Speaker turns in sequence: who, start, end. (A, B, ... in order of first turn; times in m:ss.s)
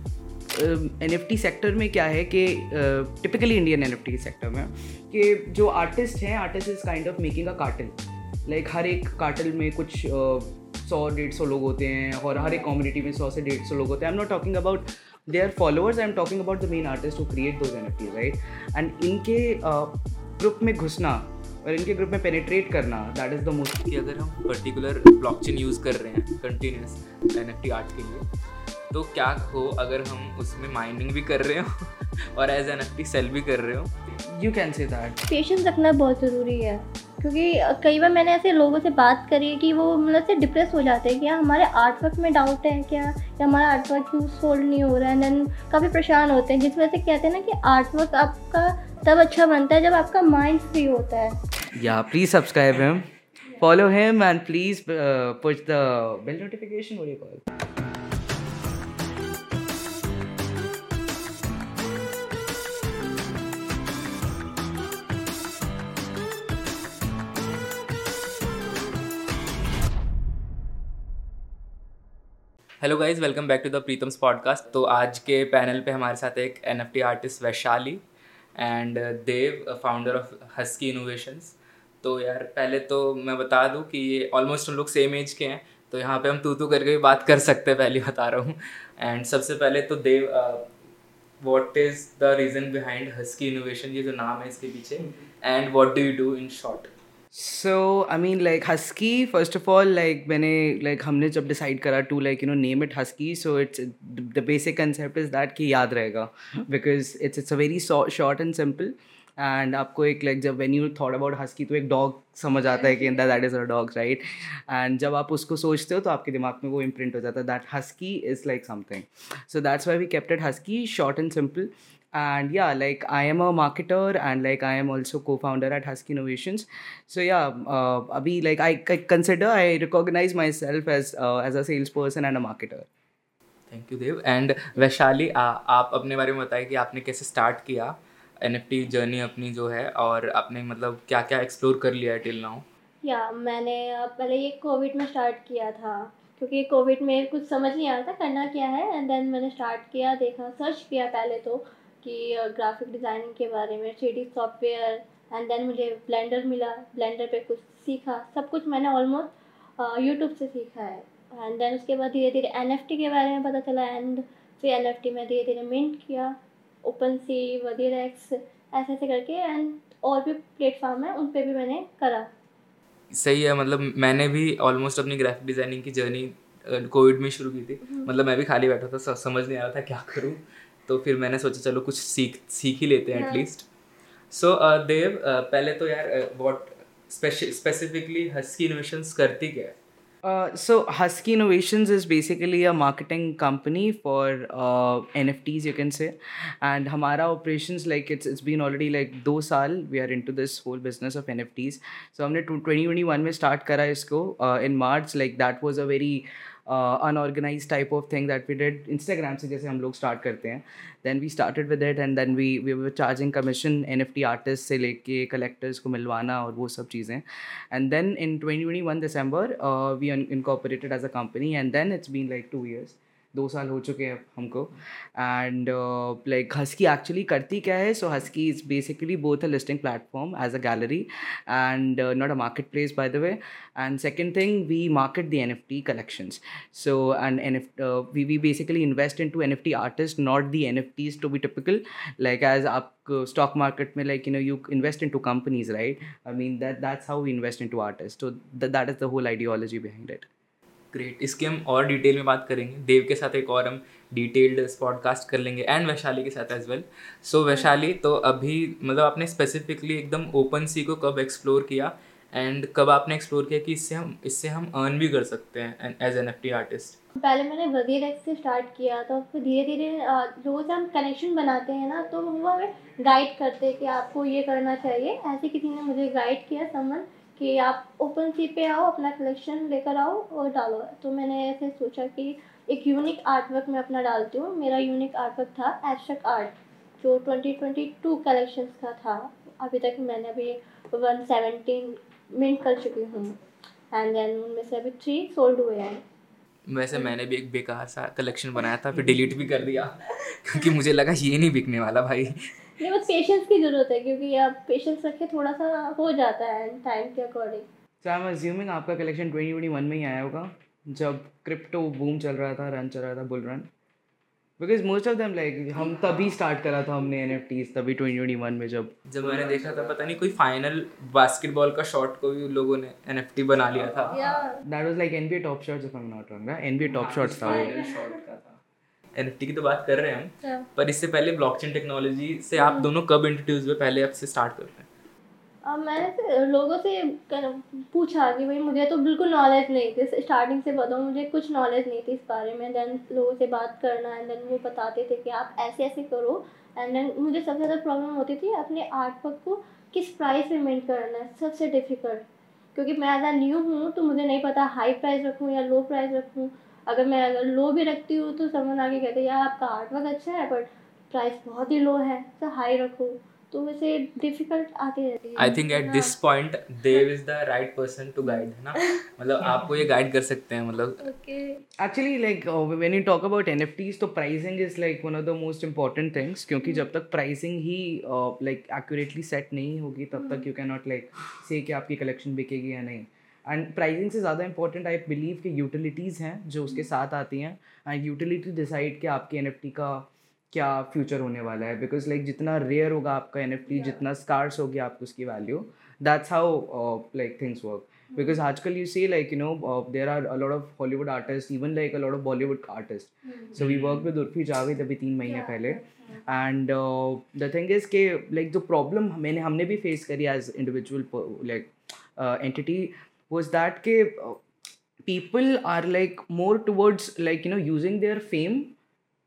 0:00.5-0:23.8 A
0:23.8-0:28.2 B
0:28.9-0:33.9 B
0:34.3-0:35.2 A
0:35.3-0:51.4 C
0:51.8-0:53.1 A
0:53.6-0:57.4 A
1:12.8-1:18.0 B
1:18.6-1:30.7 B
1:31.4-1:36.9 B
1:37.3-2:12.9 A
2:13.7-2:22.6 B
2:23.0-2:52.3 C
2:53.1-3:03.7 B
3:03.1-3:03.4 C
3:04.3-3:09.7 B
3:10.2-4:10.3 A
4:10.9-4:27.0 B
4:27.2-4:53.4 C
4:53.9-4:56.0 C
4:56.7-5:02.5 B
5:02.8-5:07.6 C
5:08.0-5:13.7 A
5:14.6-5:20.0 A
5:19.1-5:24.2 B
5:23.9-5:27.8 A
5:24.1-5:24.6 C
5:26.9-5:28.6 B
5:27.4-5:28.0 C
5:29.1-5:34.9 B
5:32.6-5:32.9 C
5:35.6-6:06.2 C
6:05.4-6:11.1 B
6:08.2-6:09.0 C
6:11.0-6:11.6 C
6:11.8-6:54.4 A
6:20.2-6:20.4 C
6:43.6-6:44.1 B
6:45.2-6:46.2 C
6:55.0-6:58.7 A